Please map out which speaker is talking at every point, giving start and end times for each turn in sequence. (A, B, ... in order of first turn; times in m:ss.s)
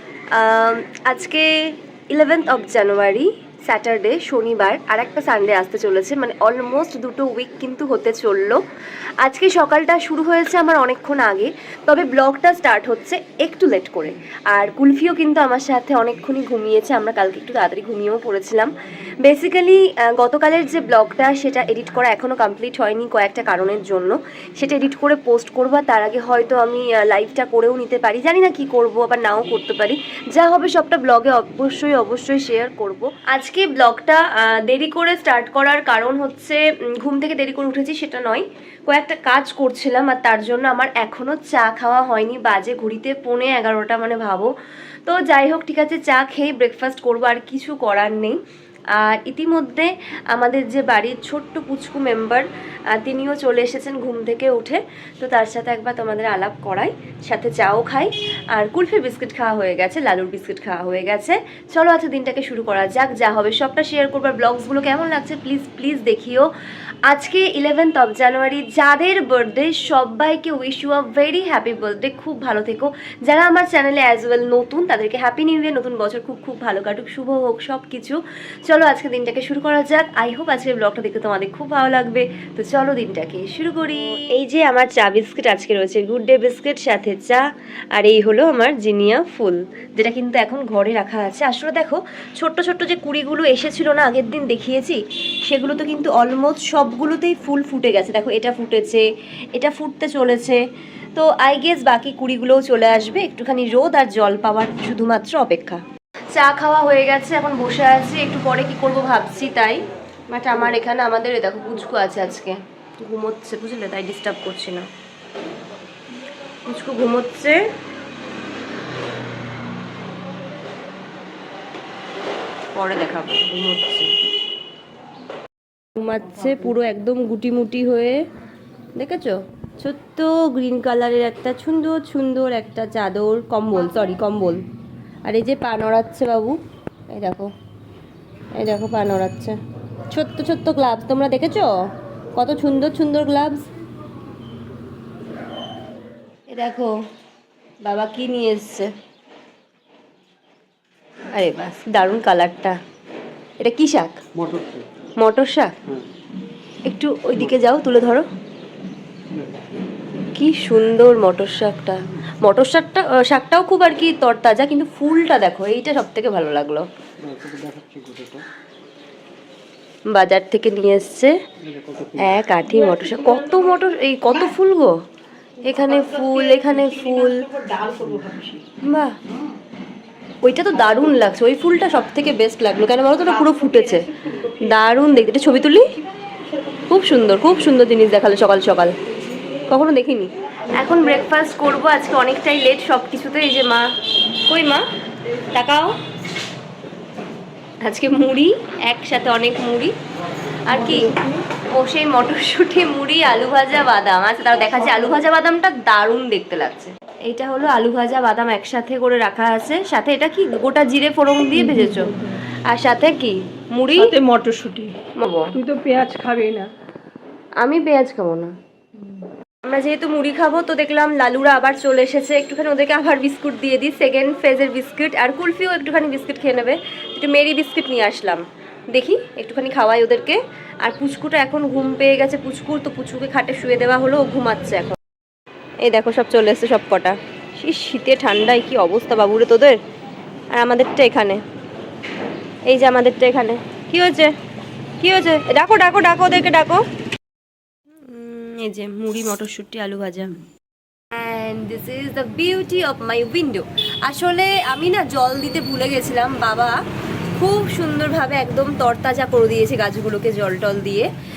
0:00.3-0:08.6 A
0:09.2-0:44.5 A
0:45.1-0:48.4 A
0:49.0-1:06.5 A
1:07.1-1:39.0 A
1:39.6-1:40.6 A
1:41.2-1:45.8 A
1:46.3-1:54.9 A
1:56.6-1:57.6 A
2:02.8-2:04.1 A
2:06.0-2:08.3 A
2:09.0-2:14.6 A
2:15.2-2:16.6 A
2:17.1-2:17.5 A
2:18.6-2:19.6 A
2:20.1-2:23.6 A
2:26.5-2:27.0 A
2:27.8-2:28.9 A
2:31.3-2:32.8 A
2:33.6-2:34.2 A
2:34.4-2:34.8 B
2:35.2-2:35.8 A
2:36.9-2:38.3 A
2:40.3-2:46.9 A
2:47.2-2:48.4 B
2:50.1-2:51.3 A
2:51.7-2:52.3 B
2:52.2-2:55.0 A
2:55.6-2:57.5 A
2:56.2-2:58.6 C
2:58.1-2:58.4 B
2:58.8-2:59.2 A
3:00.4-3:06.0 A
3:03.4-3:04.4 C
3:06.9-3:09.0 A
3:09.7-3:13.9 A
3:14.5-3:14.9 A
3:15.5-3:16.0 A
3:17.8-3:20.0 A
3:20.7-3:34.2 A
3:31.7-3:32.4 C
3:34.0-3:35.0 C
3:35.1-3:35.6 A
3:35.6-3:36.7 C
3:37.6-3:38.6 A
3:39.6-3:55.0 A
3:55.8-3:59.8 A
4:00.5-4:01.4 A
4:02.7-4:04.3 A
4:05.0-4:06.8 A
4:08.1-4:10.4 A
4:11.1-4:16.8 A
4:17.3-4:21.1 A